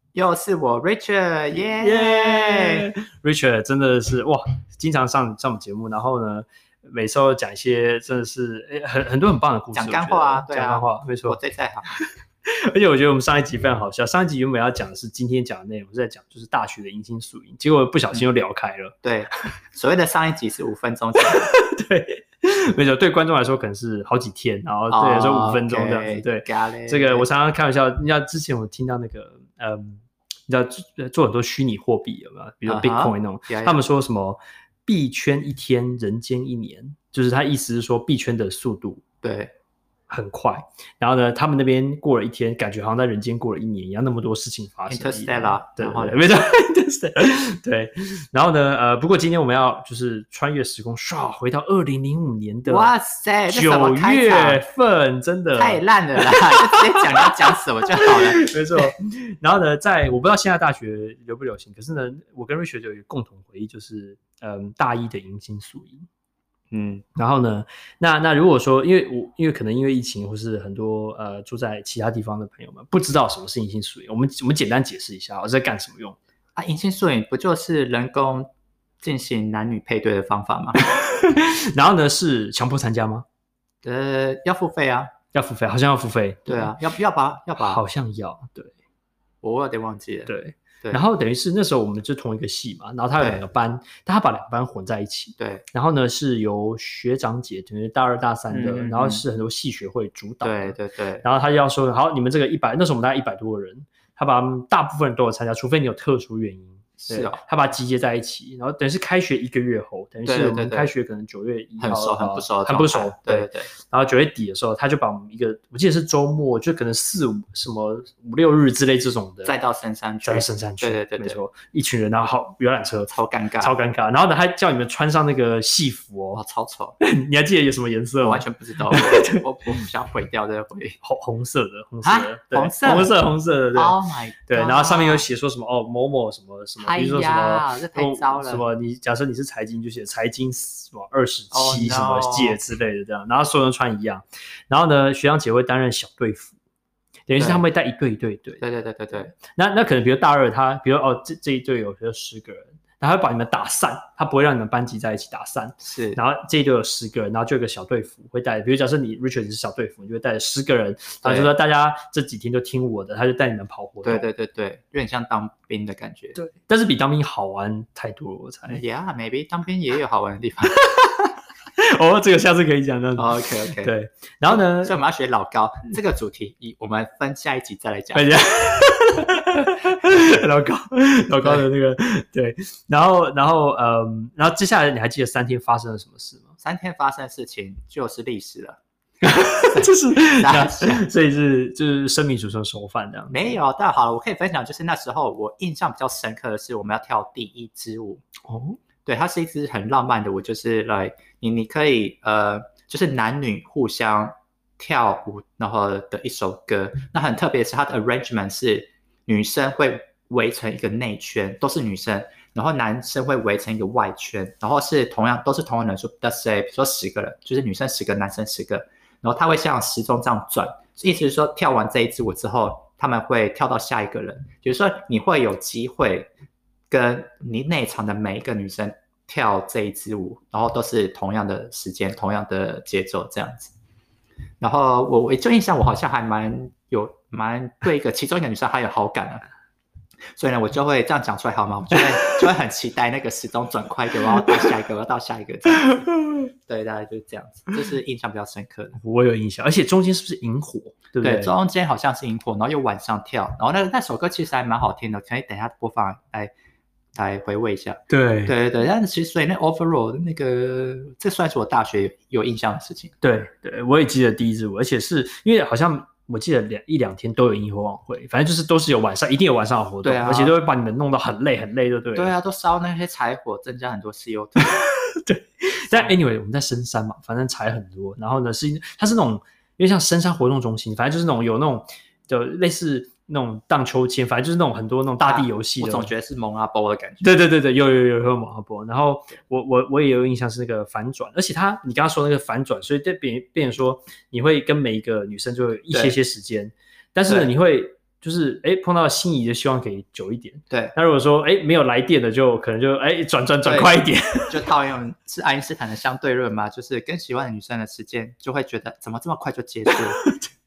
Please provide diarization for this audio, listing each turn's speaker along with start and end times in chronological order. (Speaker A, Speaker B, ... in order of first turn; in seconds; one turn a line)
Speaker A: 0.1-2.9
Speaker B: 1.5-11.4
Speaker A: 9.7-11.9
Speaker B: 11.9-18.9
Speaker A: 19.0-21.5
Speaker B: 21.4-39.0
Speaker A: 24.9-27.3
Speaker A: 32.6-33.8
Speaker A: 39.2-39.5
Speaker B: 40.1-52.9
Speaker A: 44.9-46.1
Speaker A: 52.7-54.6
Speaker B: 53.5-57.0
Speaker A: 55.5-58.4
Speaker B: 58.0-66.0
Speaker A: 66.7-67.0
Speaker B: 67.2-76.2
Speaker A: 76.5-78.5
Speaker A: 79.0-80.8
Speaker B: 80.8-83.2
Speaker A: 83.8-85.1
Speaker B: 85.3-86.7
Speaker A: 86.5-87.8
Speaker B: 87.6-88.7
Speaker A: 89.4-90.3
Speaker B: 90.3-119.5
Speaker A: 95.4-95.6
Speaker A: 98.5-99.2
Speaker A: 100.4-101.2
Speaker A: 107.0-107.4
Speaker A: 110.2-110.9
Speaker A: 111.8-113.7
Speaker A: 119.4-121.4
Speaker B: 120.2-126.4
Speaker A: 123.1-123.7
Speaker A: 126.3-127.0
Speaker B: 127.0-129.4
Speaker A: 128.2-131.0
Speaker B: 131.0-146.5
Speaker A: 132.0-133.1
Speaker A: 133.7-135.2
Speaker A: 136.8-138.6
Speaker A: 141.5-142.6
Speaker B: 147.3-148.6
Speaker A: 147.4-147.6
Speaker A: 148.6-149.3
Speaker B: 149.1-164.2
Speaker A: 155.8-156.2
Speaker A: 161.2-161.5
Speaker A: 164.0-166.3
Speaker B: 166.3-168.8
Speaker A: 168.7-170.8
Speaker B: 170.8-175.0
Speaker A: 173.2-173.9
Speaker A: 174.4-178.2
Speaker B: 178.1-186.5
Speaker A: 186.6-188.8
Speaker B: 189.2-193.6
Speaker A: 189.7-191.1
Speaker A: 193.3-198.2
Speaker B: 198.5-198.8
Speaker A: 199.1-226.3
Speaker A: 226.9-233.7
Speaker A: 234.6-239.4
Speaker A: 240.3-246.0
Speaker B: 242.2-242.5
Speaker B: 245.7-246.5
Speaker A: 246.7-249.0
Speaker B: 249.0-251.5
Speaker A: 251.2-256.5
Speaker A: 257.1-263.1
Speaker B: 258.1-258.5
Speaker B: 263.2-272.3
Speaker A: 270.0-270.5
Speaker A: 272.1-274.8
Speaker B: 274.6-286.1
Speaker A: 285.2-287.3
Speaker B: 287.2-304.6
Speaker A: 303.6-304.0
Speaker A: 304.5-310.2
Speaker B: 309.9-310.4